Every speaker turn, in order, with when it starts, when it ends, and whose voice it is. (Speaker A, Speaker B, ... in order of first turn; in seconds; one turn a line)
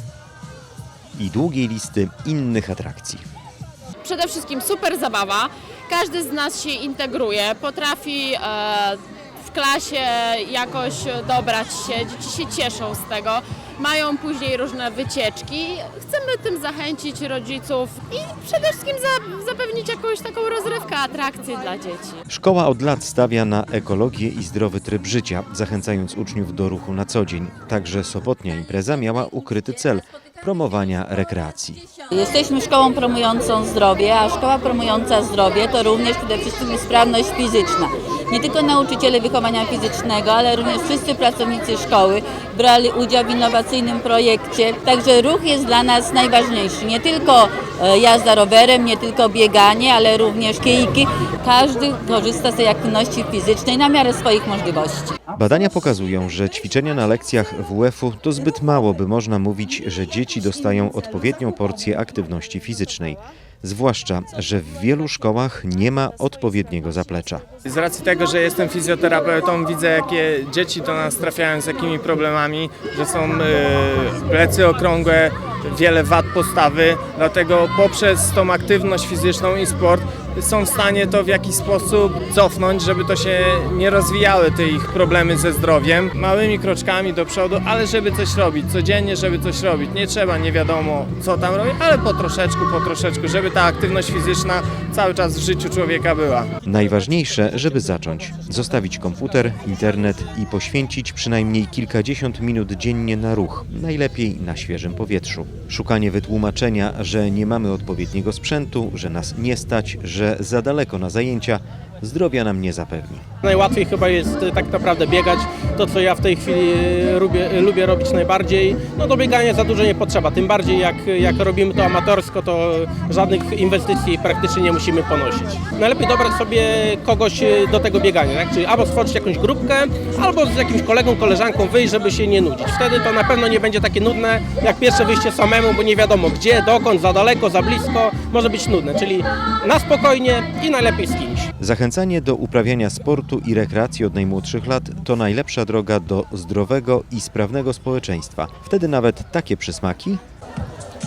Speaker A: 1.2-3.2
Speaker B: 4.0-22.2
Speaker A: 22.3-31.8
Speaker C: 32.1-55.2
Speaker A: 55.3-67.4
Speaker D: 67.7-96.5
Speaker A: 96.6-113.2
Speaker E: 113.4-141.5
Speaker A: 141.6-150.2